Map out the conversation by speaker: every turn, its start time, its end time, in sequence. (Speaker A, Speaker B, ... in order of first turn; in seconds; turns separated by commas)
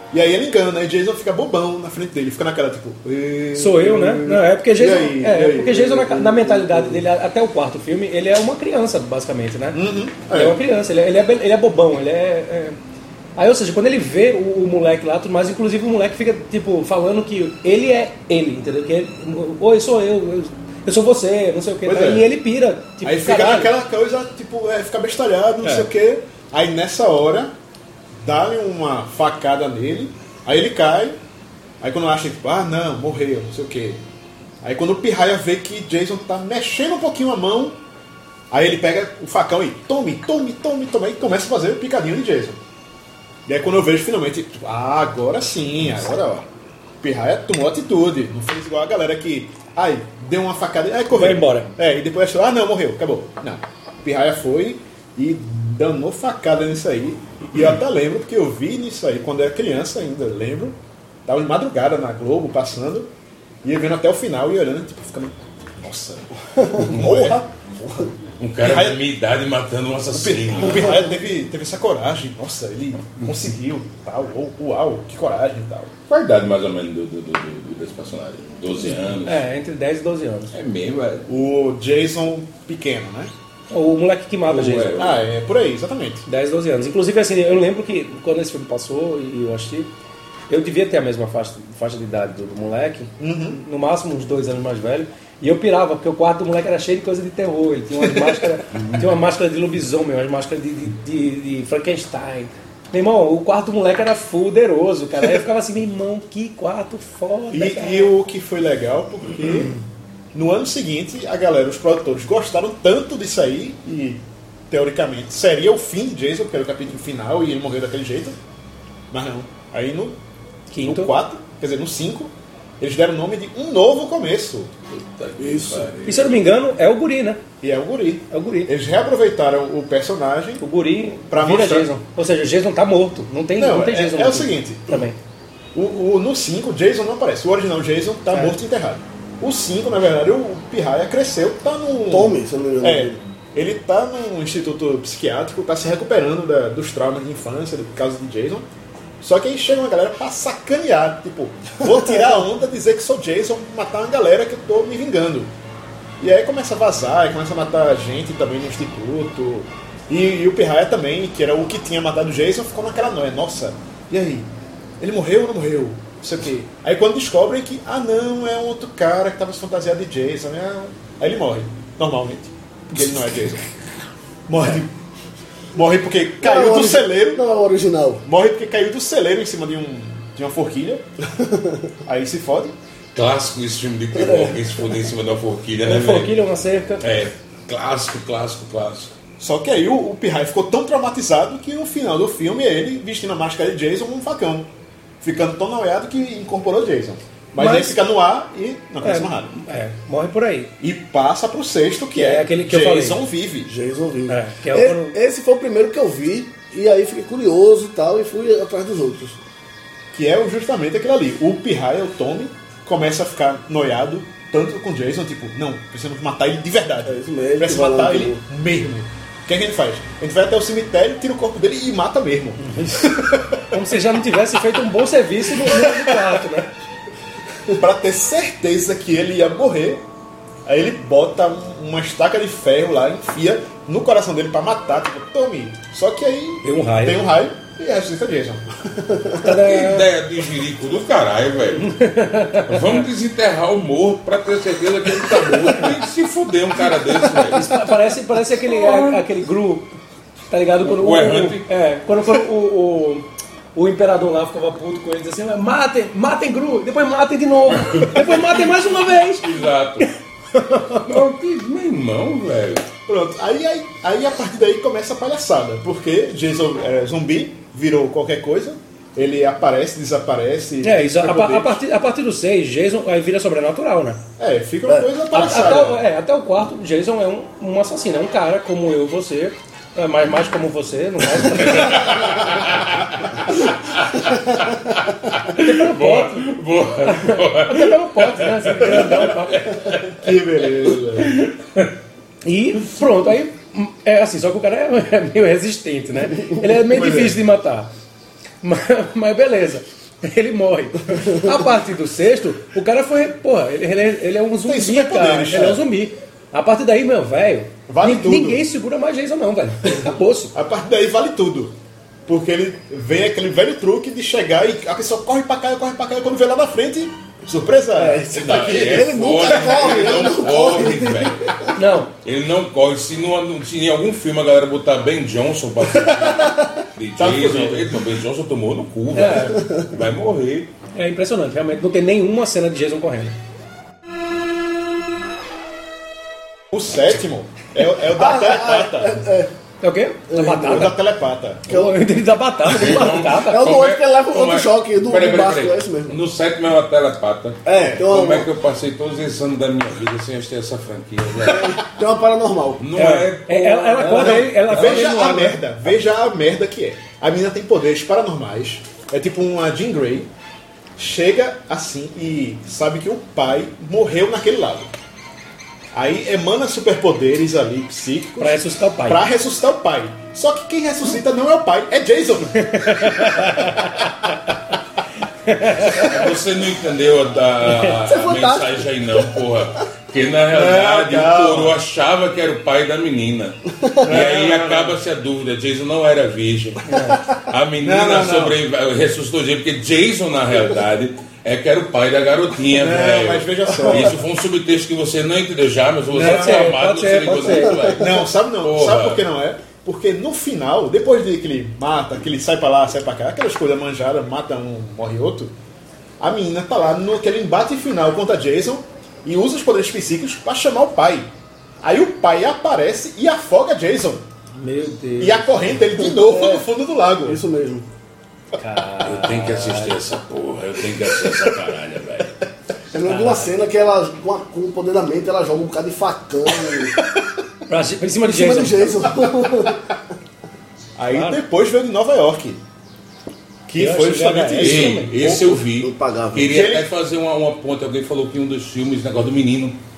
Speaker A: 0.1-6.9, Speaker B: 3.5-9.8, Speaker A: 9.7-10.6, Speaker B: 10.3-12.8, Speaker B: 13.4-23.7, Speaker A: 21.9-22.3, Speaker A: 23.0-27.5, Speaker B: 25.6-25.9, Speaker A: 28.2-31.2, Speaker A: 31.8-34.0, Speaker A: 34.6-37.8, Speaker A: 38.5-42.6, Speaker A: 43.5-46.5, Speaker A: 47.0-63.1, Speaker B: 51.1-51.7, Speaker A: 63.6-66.3, Speaker C: 66.6-68.1, Speaker D: 66.8-67.4, Speaker A: 66.9-67.5, Speaker D: 68.4-71.0, Speaker A: 68.6-69.0, Speaker A: 70.1-75.9, Speaker D: 76.1-79.4, Speaker B: 79.2-80.5, Speaker D: 80.5-81.3, Speaker A: 81.3-83.3, Speaker B: 83.7-85.0, Speaker D: 84.5-85.2, Speaker A: 85.0-86.2, Speaker B: 86.3-89.9, Speaker B: 90.5-108.1, Speaker A: 93.2-93.6, Speaker A: 98.0-98.5, Speaker A: 107.5-109.8, Speaker A: 110.3-118.4, Speaker A: 119.1-120.2, Speaker B: 120.7-121.1, Speaker A: 120.8-124.8, Speaker D: 124.9-126.3, Speaker C: 125.4-125.9, Speaker B: 126.0-127.4, Speaker A: 127.6-130.6, Speaker B: 128.3-128.7, Speaker B: 130.6-135.2, Speaker A: 131.3-131.9, Speaker A: 133.6-135.1, Speaker A: 135.7-148.7, Speaker C: 142.1-143.2, Speaker A: 149.2-155.5, Speaker A: 156.2-164.5, Speaker A: 165.0-173.7, Speaker A: 174.5-174.9, Speaker A: 175.7-177.4, Speaker C: 176.4-178.2, Speaker A: 178.3-181.1, Speaker C: 181.4-181.9, Speaker A: 182.1-182.8, Speaker D: 183.2-186.3, Speaker B: 185.8-187.0, Speaker D: 187.0-189.1, Speaker A: 189.4-194.7, Speaker A: 195.2-199.5, Speaker B: 197.6-198.0, Speaker B: 199.0-200.7, Speaker A: 200.8-203.7, Speaker B: 202.1-203.2, Speaker C: 203.7-209.4, Speaker B: 204.3-205.2, Speaker A: 210.1-223.7, Speaker C: 217.1-218.4, Speaker B: 223.7-226.7, Speaker A: 225.6-226.2, Speaker A: 227.7-230.0, Speaker A: 230.7-238.7, Speaker B: 236.6-237.2, Speaker B: 239.4-240.1, Speaker D: 239.4-242.0, Speaker B: 241.8-243.1, Speaker D: 242.7-247.9, Speaker B: 247.5-249.9, Speaker D: 248.6-249.2, Speaker B: 250.5-261.2, Speaker D: 250.8-251.7, Speaker D: 257.7-260.1, Speaker D: 260.9-262.9, Speaker A: 263.1-271.8, Speaker B: 270.8-274.2, Speaker A: 274.4-276.0, Speaker B: 275.3-282.4, Speaker D: 281.5-290.3, Speaker B: 285.5-286.5, Speaker B: 287.0-289.7, Speaker A: 290.1-291.4, Speaker B: 292.4-297.9, Speaker A: 296.8-297.4, Speaker B: 298.6-310.6, Speaker A: 304.6-305.8, Speaker A: 307.9-308.6, Speaker A: 310.5-311.8, Speaker A: 312.3-319.0, Speaker C: 318.0-321.6, Speaker D: 318.3-330.7, Speaker A: 319.7-320.2, Speaker B: 321.7-322.1, Speaker C: 326.2-326.5, Speaker A: 327.2-328.0, Speaker B: 329.1-329.6, Speaker B: 330.9-333.4, Speaker A: 336.7-339.2, Speaker C: 338.1-339.5, Speaker B: 339.8-341.0, Speaker C: 340.3-340.9, Speaker A: 340.7-341.8, Speaker B: 341.7-343.6, Speaker C: 341.7-342.0, Speaker D: 342.6-351.8, Speaker C: 342.8-346.2, Speaker C: 347.6-348.5, Speaker A: 347.7-348.1, Speaker C: 351.4-352.8, Speaker D: 352.8-354.2, Speaker B: 352.9-355.6, Speaker C: 354.0-355.4, Speaker A: 354.1-360.3, Speaker A: 361.0-364.9, Speaker A: 365.9-373.6, Speaker B: 368.4-369.2, Speaker B: 372.6-374.3, Speaker B: 375.4-376.1, Speaker D: 375.9-399.2, Speaker B: 377.7-377.9, Speaker C: 378.0-379.4, Speaker A: 380.5-381.8, Speaker A: 384.0-385.0, Speaker B: 386.9-387.2, Speaker A: 387.8-388.6, Speaker A: 392.7-394.2, Speaker A: 396.1-396.7, Speaker B: 396.1-398.0, Speaker A: 398.0-405.5, Speaker A: 406.2-414.2, Speaker B: 414.6-415.4, Speaker A: 415.2-417.4, Speaker C: 416.0-416.6, Speaker C: 417.2-417.9, Speaker B: 418.6-420.0, Speaker D: 419.0-422.3, Speaker C: 422.9-427.0, Speaker B: 423.1-423.5, Speaker B: 427.7-429.0, Speaker C: 428.3-429.8, Speaker A: 431.0-432.6, Speaker B: 431.1-431.4, Speaker A: 433.7-435.6, Speaker B: 433.7-435.2, Speaker D: 434.6-439.8, Speaker C: 435.8-436.5, Speaker A: 436.4-436.9